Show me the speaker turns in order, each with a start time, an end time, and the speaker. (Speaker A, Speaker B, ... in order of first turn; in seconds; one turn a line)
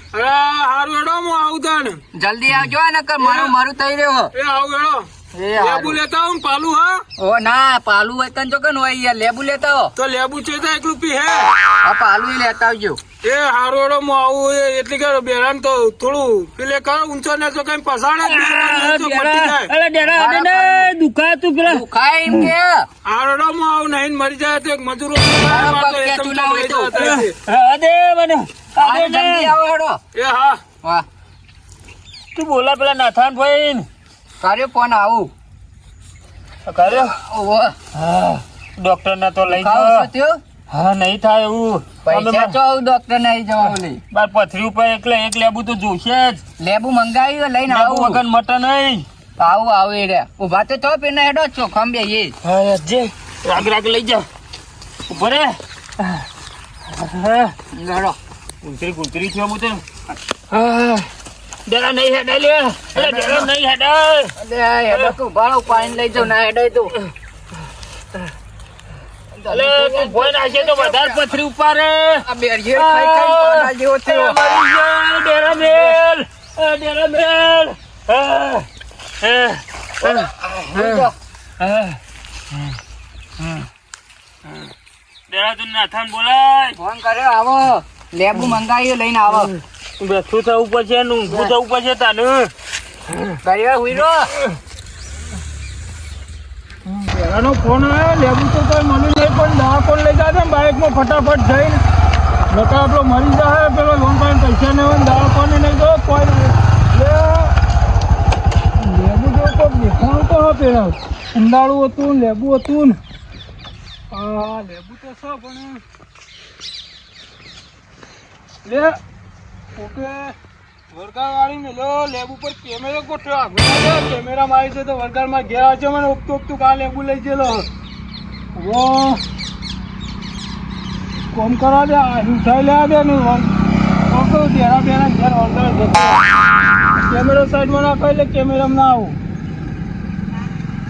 Speaker A: 0.1-2.0
Speaker B: 2.1-4.3
Speaker A: 3.2-3.5
Speaker A: 4.3-7.0
Speaker B: 5.3-6.0
Speaker B: 7.2-9.9
Speaker A: 10.0-11.5
Speaker B: 11.8-13.0
Speaker A: 13.2-19.7
Speaker C: 18.2-22.5
Speaker B: 20.1-20.9
Speaker B: 21.6-22.9
Speaker A: 23.0-27.3
Speaker B: 25.5-27.0
Speaker C: 26.9-29.5
Speaker B: 28.8-30.0
Speaker A: 30.1-30.6
Speaker C: 32.3-33.9
Speaker B: 34.4-35.3
Speaker C: 36.6-37.1
Speaker B: 36.9-37.8
Speaker C: 37.9-40.0
Speaker B: 39.5-40.4
Speaker C: 40.7-42.5
Speaker B: 42.0-44.0
Speaker C: 43.7-46.4
Speaker B: 46.6-48.2
Speaker C: 47.7-49.0
Speaker B: 49.4-52.3
Speaker C: 52.4-54.2
Speaker C: 55.1-56.2
Speaker C: 56.9-57.5
Speaker B: 57.7-58.2
Speaker C: 58.6-59.8
Speaker C: 60.5-61.1
Speaker C: 61.6-64.3
Speaker B: 62.9-63.5
Speaker B: 64.4-66.9
Speaker B: 69.4-71.3
Speaker C: 69.5-78.7
Speaker B: 72.2-74.4
Speaker C: 79.2-81.1
Speaker B: 80.0-81.1
Speaker C: 81.6-82.0
Speaker C: 83.4-83.7
Speaker C: 85.3-86.8
Speaker B: 86.8-89.5
Speaker C: 89.3-92.5
Speaker B: 93.4-94.3
Speaker A: 96.8-101.8
Speaker A: 102.5-107.5
Speaker A: 108.7-113.0
Speaker A: 114.1-115.8
Speaker A: 118.6-119.0
Speaker A: 119.8-120.3
Speaker A: 120.9-127.7
Speaker A: 128.6-129.2
Speaker A: 131.3-133.5
Speaker A: 134.1-136.3
Speaker A: 136.8-139.2